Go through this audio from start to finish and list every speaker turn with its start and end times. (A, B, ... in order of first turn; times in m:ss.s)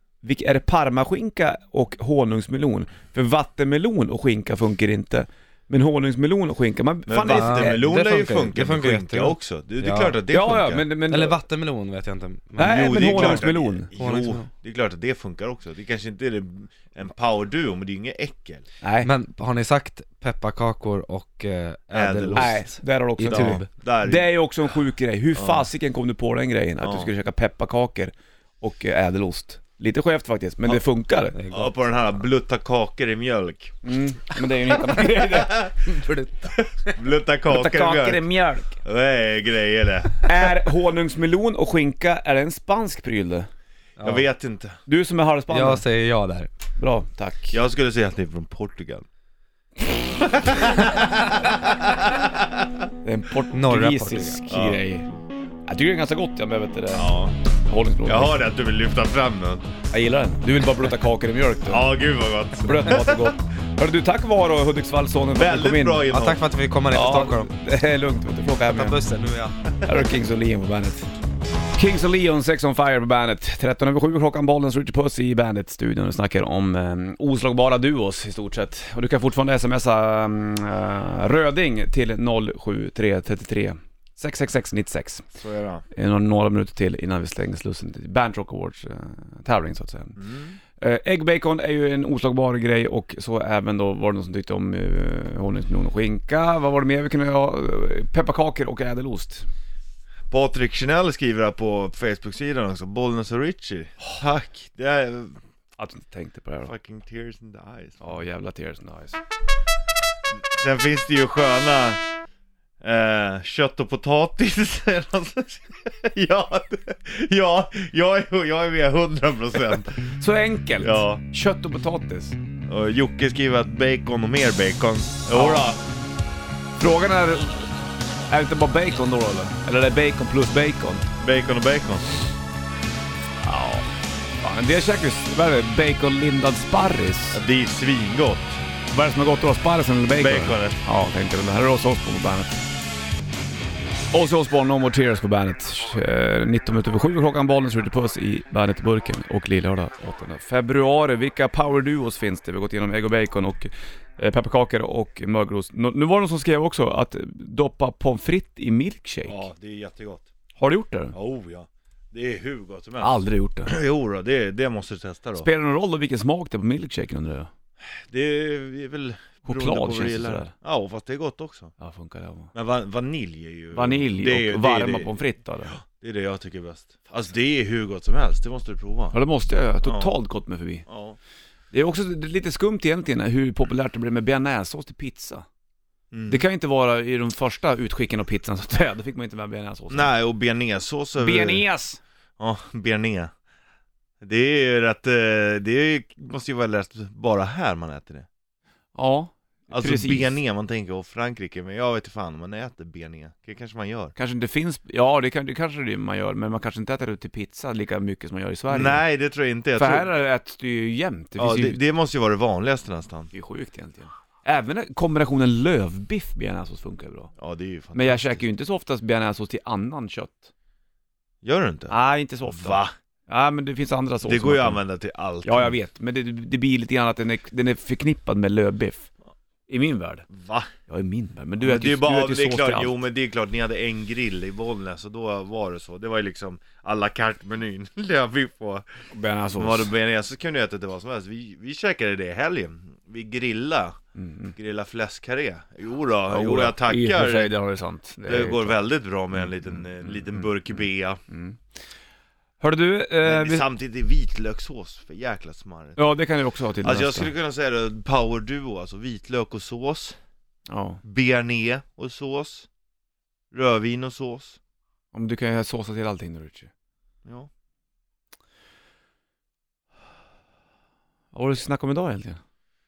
0:00.2-0:07.8 A
0:07.1-0:10.8 B
0:07.3-0:10.2 C
0:10.3-0:11.4 A
0:11.1-0:13.4 C
0:12.6-0:13.9 A
0:12.6-0:18.7 B
0:14.0-0:14.5 C
0:18.8-0:19.1 A
0:19.0-0:23.6 C
0:21.9-0:22.6 B
0:22.4-0:31.4 A
0:23.2-0:24.3 B
0:25.3-0:25.7 B
0:26.8-0:27.1 B
0:31.4-0:31.7 C
0:31.5-0:33.8 B
0:33.8-0:35.7 A
0:35.0-0:35.5 B
0:35.8-0:36.6 C
0:36.8-0:38.3 B
0:37.5-0:38.8 A
0:38.8-0:40.7 B
0:40.2-0:43.5 A
0:44.0-0:44.2 C
0:44.0-0:44.8 B
0:44.8-0:45.8 A
0:45.5-0:46.5 C
0:46.8-0:47.6 A
0:47.5-0:49.1 B
0:50.2-0:52.5 B
0:53.0-0:55.1 A
0:53.5-0:54.4 C
0:54.5-0:54.8 B
0:55.7-0:58.5 A
0:56.9-0:57.3 B
0:58.0-0:59.7 B
0:59.9-1:01.9 A
1:01.7-1:03.3 B
1:02.6-1:06.1 A
1:05.3-1:06.4 B
1:06.1-1:07.5 C
1:06.9-1:09.0 A
1:08.6-1:09.6 C
1:09.8-1:11.1 A
1:11.7-1:25.2 A
1:25.4-1:25.8 B
1:25.9-1:30.2 A
1:30.2-1:30.6 B
1:30.8-1:39.5 A
1:40.3-1:45.4 B
1:45.8-1:46.7 A
1:46.6-1:48.2 B
1:48.0-1:49.2 A
1:50.5-1:52.0 B
1:52.8-2:00.2 B
2:00.2-2:02.4 A
2:00.8-2:01.2 B
2:02.7-2:05.8 B
2:05.3-2:05.7 A
2:06.8-2:07.7 A
2:08.3-2:11.1 A
2:11.2-2:12.3 B
2:13.4-2:13.9 A
2:14.4-2:17.4 A
2:17.3-2:18.6 B
2:18.9-2:22.5 A
2:20.2-2:20.8 B
2:24.1-2:39.4 A
2:39.3-2:40.3 B
2:40.6-2:41.2 A
2:41.1-2:45.5 B
2:43.0-2:43.8 A
2:45.4-2:47.5 A
2:47.8-2:51.7 B
2:49.5-2:50.5 A
2:51.8-2:52.5 A
2:52.5-2:55.1 B
2:53.7-2:55.8 A
2:55.7-2:59.2 B
2:59.1-3:00.8 A
2:59.8-3:00.1 B
3:00.8-3:01.2 B
3:01.7-3:05.5 A
3:06.1-3:06.4 B
3:06.3-3:10.1 A
3:09.9-3:11.6 B
3:11.2-3:12.0 A
3:12.4-3:13.3 B
3:14.2-3:18.3 B
3:19.0-3:20.4 A
3:19.7-3:24.2 B
3:24.2-3:29.0 A
3:28.7-3:30.1 B
3:29.8-3:31.8 A
3:31.4-3:33.3 B
3:33.3-3:37.3 A
3:37.4-3:38.4 B
3:37.9-3:40.5 A
3:41.4-3:42.9 B
3:41.9-3:44.8 A
3:44.2-3:45.8 B
3:45.4-3:49.1 A
3:49.7-3:50.3 A
3:50.3-3:50.7 B
3:50.9-3:53.0 A
3:51.6-3:58.8 B
3:59.1-3:59.9 A
3:59.5-4:04.0 B
4:04.2-4:04.5 A
4:04.5-4:07.5 B
4:06.3-4:08.8 A
4:08.2-4:11.2 B
4:09.3-4:11.6 A
4:12.6-4:13.7 A
4:13.2-4:16.0 B
4:16.0-4:17.3 A
4:16.8-4:20.2 B
4:20.7-4:21.0 A
4:21.0-4:22.7 B
4:23.5-4:24.6 B
4:25.1-4:26.7 A
4:31.3-4:32.4 A